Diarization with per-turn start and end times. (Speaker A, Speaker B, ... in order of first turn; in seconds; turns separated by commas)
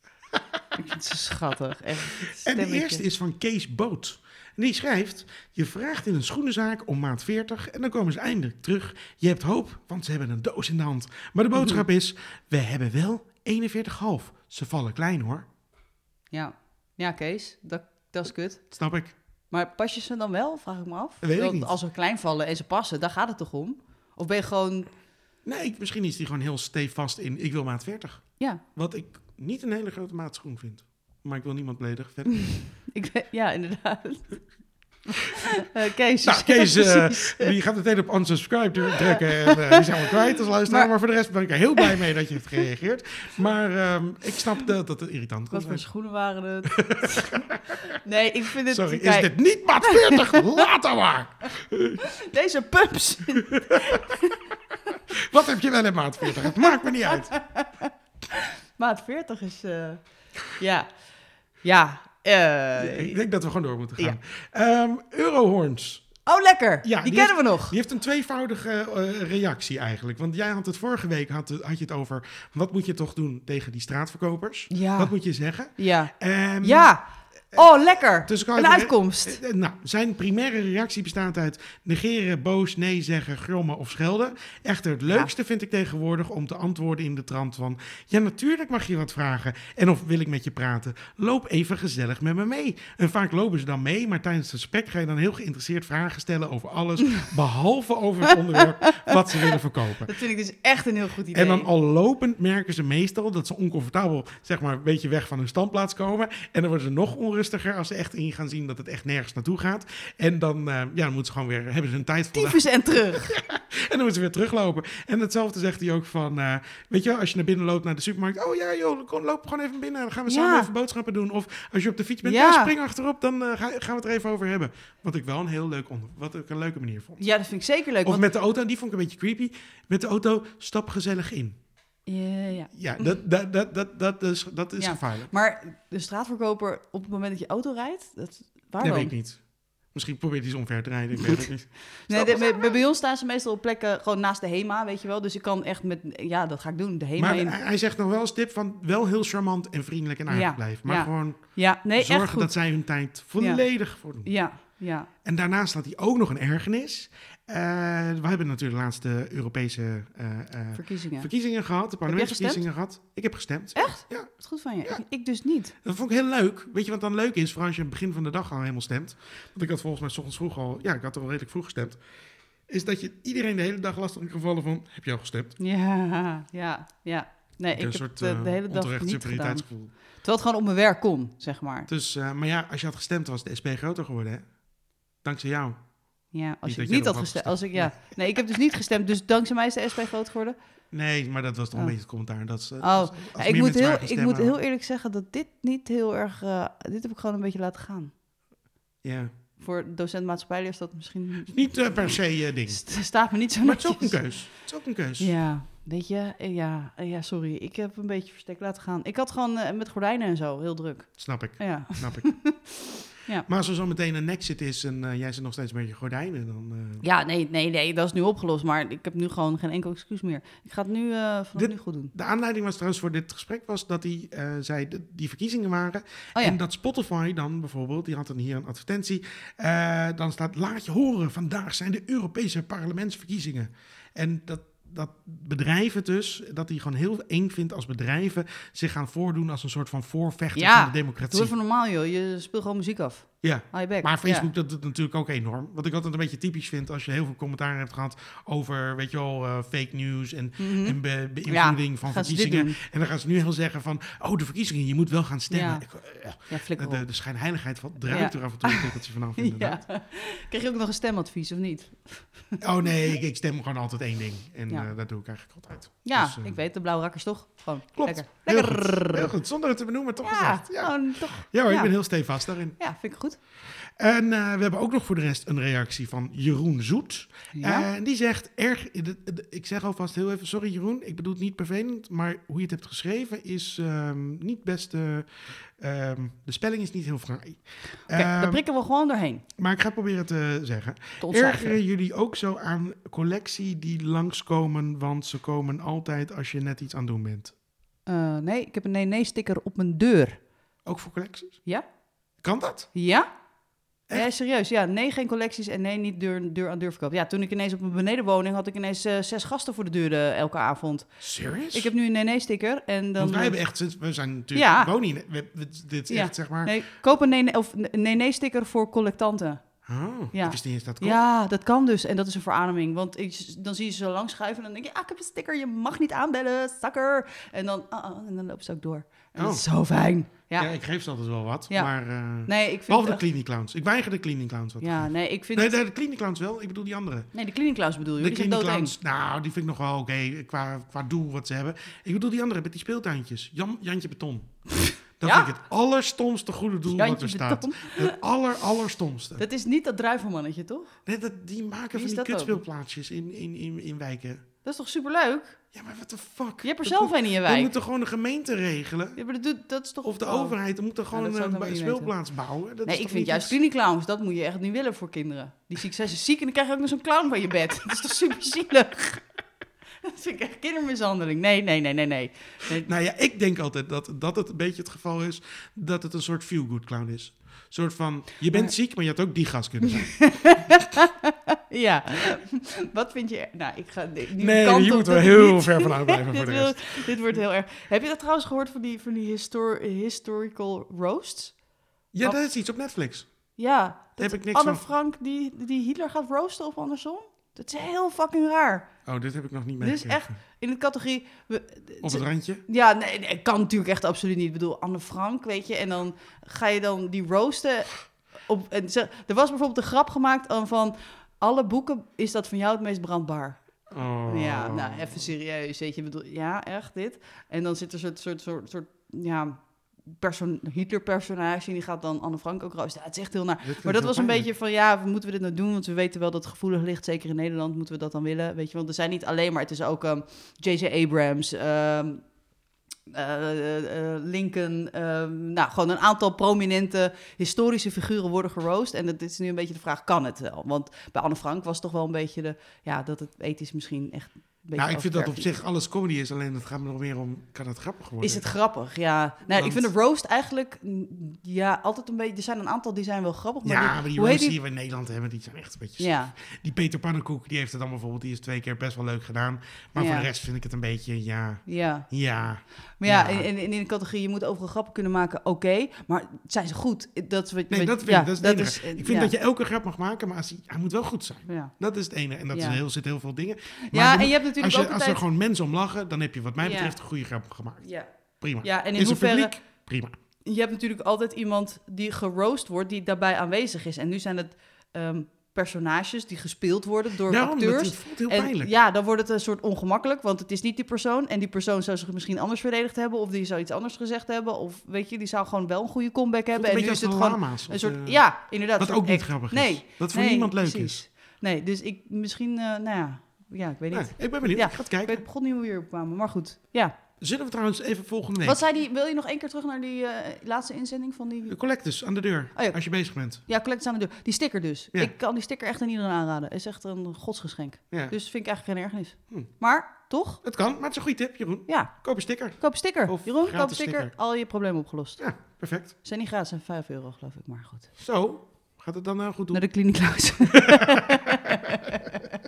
Speaker A: 0.3-0.6, Speaker B: 0.8-3.0, Speaker A: 2.1-15.5, Speaker B: 11.5-11.8, Speaker B: 16.3-18.7, Speaker A: 18.7-19.1, Speaker B: 19.5-24.9, Speaker A: 21.2-21.7, Speaker A: 25.4-32.6, Speaker B: 32.4-34.5, Speaker B: 35.1-37.5, Speaker A: 36.2-45.9, Speaker B: 39.1-39.8, Speaker B: 41.8-42.0, Speaker B: 45.5-50.6, Speaker A: 46.7-47.8, Speaker A: 48.7-52.0, Speaker B: 52.0-54.4, Speaker A: 53.5-53.9, Speaker A: 55.2-57.3, Speaker B: 56.4-61.0, Speaker B: 61.6-63.2, Speaker A: 62.8-66.1, Speaker B: 66.2-67.8, Speaker A: 66.8-76.9, Speaker B: 74.7-79.4, Speaker A: 77.5-100.1, Speaker B: 85.1-85.3, Speaker B: 100.0-101.7, Speaker A: 101.3-127.2, Speaker B: 112.3-113.3, Speaker B: 120.3-120.7, Speaker B: 122.2-122.7, Speaker B: 127.2-128.2, Speaker A: 128.0-131.6, Speaker B: 132.1-133.2, Speaker A: 132.7-135.3, Speaker B: 134.8-139.1, Speaker A: 138.8-142.7, Speaker B: 142.0-147.6, Speaker A: 147.2-154.3, Speaker B: 150.3-152.6, Speaker B: 153.4-155.1, Speaker A: 155.2-165.0, Speaker B: 160.7-161.3, Speaker B: 162.1-162.7, Speaker B: 163.7-165.7, Speaker A: 165.8-172.0, Speaker A: 172.7-175.5, Speaker B: 175.6-181.9, Speaker A: 177.8-179.9, Speaker A: 181.9-184.6, Speaker A: 185.2-186.1, Speaker B: 186.3-190.6, Speaker A: 186.6-188.1, Speaker A: 190.9-194.6, Speaker B: 192.8-198.1, Speaker A: 199.0-199.3, Speaker B: 199.6-204.6, Speaker A: 201.5-205.3, Speaker B: 205.2-213.5, Speaker A: 211.2-212.3, Speaker A: 213.4-217.0, Speaker B: 217.0-222.1, Speaker A: 221.5-241.5, Speaker B: 240.6-244.5, Speaker A: 243.4-259.8, Speaker B: 250.6-252.8, Speaker B: 255.5-257.1, Speaker B: 258.0-262.6, Speaker A: 262.6-266.5, Speaker B: 266.0-269.3, Speaker A: 267.9-272.8, Speaker B: 270.2-271.9, Speaker B: 272.8-273.4, Speaker A: 273.6-288.6, Speaker B: 277.5-277.9, Speaker B: 288.1-289.4, Speaker A: 289.6-297.5, Speaker B: 291.2-291.8, Speaker B: 298.1-300.4, Speaker A: 300.8-301.6, Speaker A: 302.4-302.9, Speaker B: 302.9-303.3, Speaker B: 304.1-313.6, Speaker A: 311.2-311.9, Speaker A: 313.2-316.8, Speaker B: 314.5-314.9, Speaker B: 316.1-319.6, Speaker A: 319.9-321.2, Speaker B: 320.3-330.7, Speaker A: 329.4-329.6, Speaker A: 330.6-337.3, Speaker B: 332.4-333.2, Speaker B: 334.8-335.7, Speaker B: 337.3-338.9, Speaker A: 338.2-344.6, Speaker A: 345.2-349.4, Speaker B: 345.2-345.5, Speaker B: 346.9-348.2, Speaker B: 349.4-351.0, Speaker A: 351.1-354.4, Speaker B: 351.9-352.6, Speaker B: 354.6-355.6, Speaker A: 355.7-359.2, Speaker B: 356.6-357.7, Speaker B: 359.1-360.6, Speaker A: 360.0-363.6, Speaker B: 361.1-362.1, Speaker B: 362.9-369.3, Speaker B: 370.0-372.9, Speaker A: 372.8-380.5, Speaker B: 378.5-378.7, Speaker B: 379.8-391.5, Speaker A: 384.4-387.1, Speaker A: 392.1-393.3, Speaker B: 393.6-398.9, Speaker A: 394.2-394.8, Speaker A: 399.1-400.4, Speaker B: 399.8-432.2, Speaker A: 402.0-402.6, Speaker A: 413.9-415.3, Speaker A: 423.6-424.5, Speaker B: 433.1-445.5, Speaker A: 444.8-448.4, Speaker B: 448.2-454.5, Speaker A: 449.5-449.9, Speaker A: 453.6-463.5, Speaker B: 456.0-456.3, Speaker B: 459.9-460.3, Speaker B: 461.6-462.1, Speaker B: 463.0-469.3, Speaker A: 467.7-480.1, Speaker B: 471.5-471.7, Speaker B: 472.5-472.8, Speaker B: 473.9-475.2, Speaker B: 476.6-477.0, Speaker B: 477.8-479.5, Speaker B: 480.4-506.9, Speaker A: 487.3-488.7, Speaker A: 496.5-498.2, Speaker A: 498.8-501.0, Speaker A: 503.9-505.2, Speaker A: 507.2-508.6, Speaker B: 508.4-511.6, Speaker A: 511.5-513.4, Speaker B: 512.5-512.8, Speaker B: 513.5-520.4, Speaker A: 520.4-524.1, Speaker B: 521.7-521.9, Speaker B: 522.5-525.2, Speaker A: 525.2-525.9, Speaker B: 526.0-527.9, Speaker A: 528.0-529.6, Speaker B: 529.5-532.0, Speaker A: 530.5-532.2